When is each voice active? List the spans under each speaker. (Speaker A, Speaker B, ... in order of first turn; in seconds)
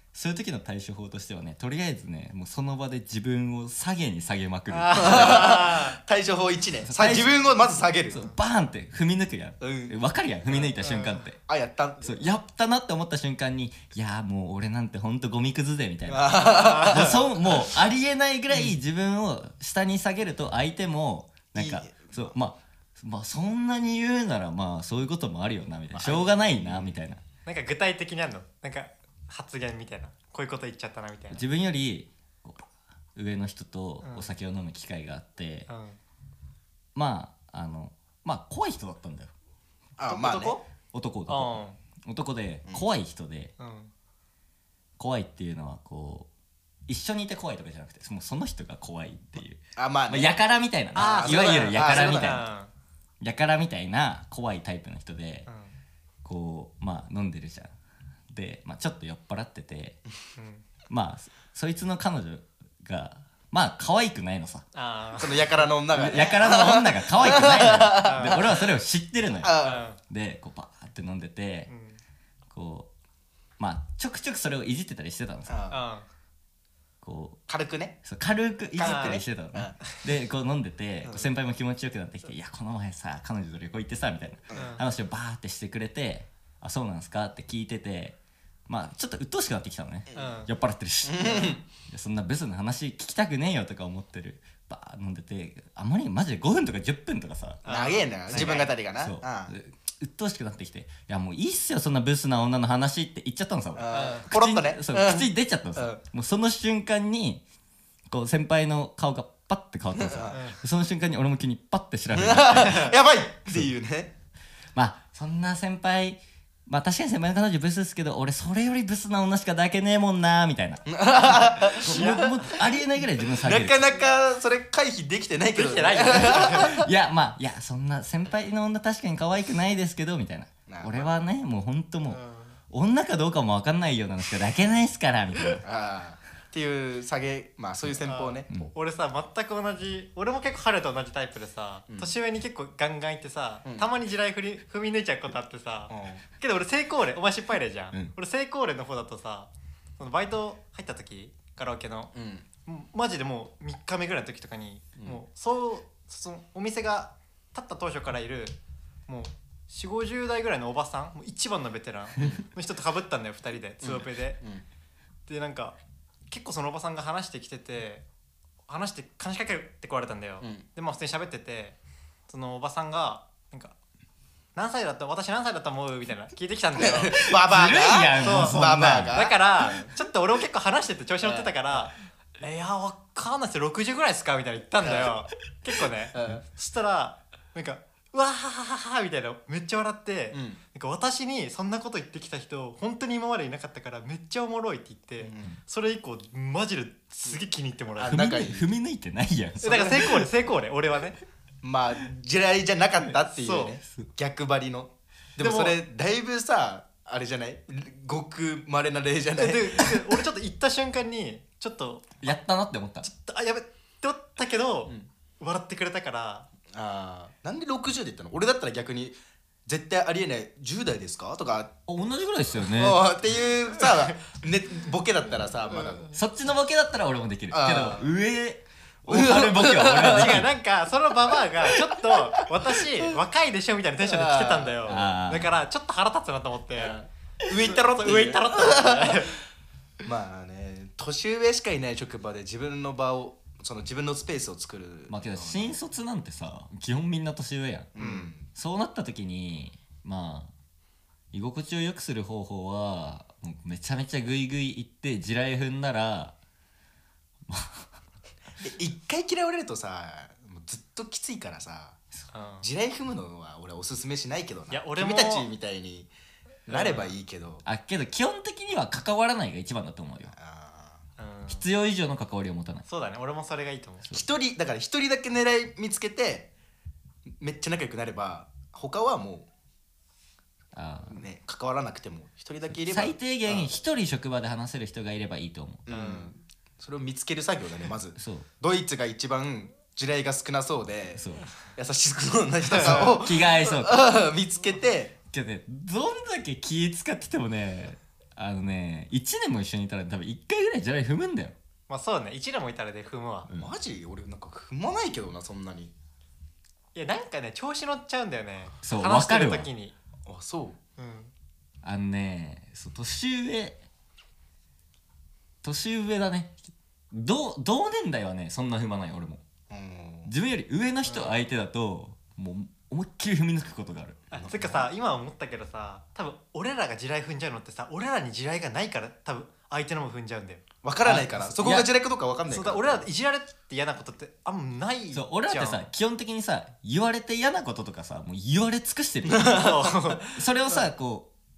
Speaker A: 0.1-5.6, 6.8-7.3, 8.1-11.4, 12.0-27.2, 31.3-35.7, 36.9-39.3, 40.9-43.5, 45.0-46.3, 46.9-52.5, 53.2-55.5, 56.2-57.7, 58.3-60.0, 60.9-64.6, 65.9-69.5, 70.0-71.7, 72.5-72.9, 73.6-75.6, 77.0-77.4, 78.0-88.2, 88.7-97.6, 98.3-107.4, 108.1-112.9, 114.7-123.8, 126.2-135.6, 177.2-179.2, 198.1-200.3, 212.2-213.1, 221.9-223.0, 226.1-230.5, 234.8-235.5, 245.1-247.9, 248.5-250.5, 251.3-256.3, 257.5-257.9, 267.6-270.3, 271.5-272.8, 280.7-281.2, 282.8-285.8, 288.1-288.4, 291.1-291.5, 292.8-294.1, 295.3-301.5, 308.8-309.7, 311.8-313.8, 315.6-319.4, 320.3-324.2, 331.0-331.9, 335.1-341.3
Speaker B: 4.7-6.0, 10.8-11.2, 27.4-31.4, 34.0-34.3, 35.7-36.0, 40.0-40.6, 41.3-41.8, 43.6-43.9, 50.9-52.7, 55.5-55.7, 60.4-60.6, 64.7-65.7, 67.3-68.4, 69.6-70.0, 71.7-72.0, 75.7-76.1, 78.8-79.2, 84.5-84.8, 90.1-90.5, 97.6-98.7, 103.9-104.3, 110.3-110.6, 121.7-122.4, 125.5-126.8, 132.1-132.6, 138.0-152.1, 152.7-164.4, 165.3-165.8, 166.3-168.1, 168.7-171.8, 172.3-173.7, 174.5-177.2, 178.2-198.5, 199.6-201.2, 203.2-203.8, 205.4-205.8, 209.3-212.4, 213.0-216.5, 223.8-224.1, 230.0-239.4, 248.0-248.3, 262.3-262.7, 264.7-265.5, 266.7-267.1, 271.2-271.7, 272.9-274.1, 285.9-286.3, 292.7-293.2, 301.9-303.5, 306.9-309.9, 311.0-311.3, 321.0-321.5, 324.3-330.6, 332.4-335.9, 339.5-340.4
Speaker C: 4.9-8.3, 9.6-10.0, 11.5-12.2, 16.1-17.8, 21.5-22.3, 25.9-27.0, 40.0-40.6, 49.8-50.3, 51.0-52.5, 65.2-68.7, 69.4-69.8, 75.5-75.8, 77.5-78.0, 78.8-79.8, 81.0-81.3, 90.1-90.4, 91.0-91.6, 97.6-99.5, 103.7-106.0, 110.0-110.4, 112.1-114.1, 120.9-122.5, 123.2-126.9, 130.7-131.1, 135.6-138.6, 145.9-146.2, 152.1-152.4, 162.2-162.4, 163.8-164.6, 176.8-179.9, 181.2-181.5, 184.8-185.1, 186.1-186.4, 190.3-190.6, 195.2-195.5, 198.0-198.7, 201.6-210.2, 216.7-221.7, 222.6-226.1, 227.5-228.1, 229.1-230.4, 231.6-232.8, 234.0-235.2, 236.8-239.2, 240.0-245.8, 247.9-248.5, 258.6-262.0, 262.6-266.1, 266.7-267.6, 270.3-271.0, 274.1-276.5, 277.4-279.5, 281.1-283.7, 285.9-295.1, 303.5-305.9, 310.2-310.8, 319.7-320.3, 324.3-324.9, 330.8-333.1, 339.3-340.1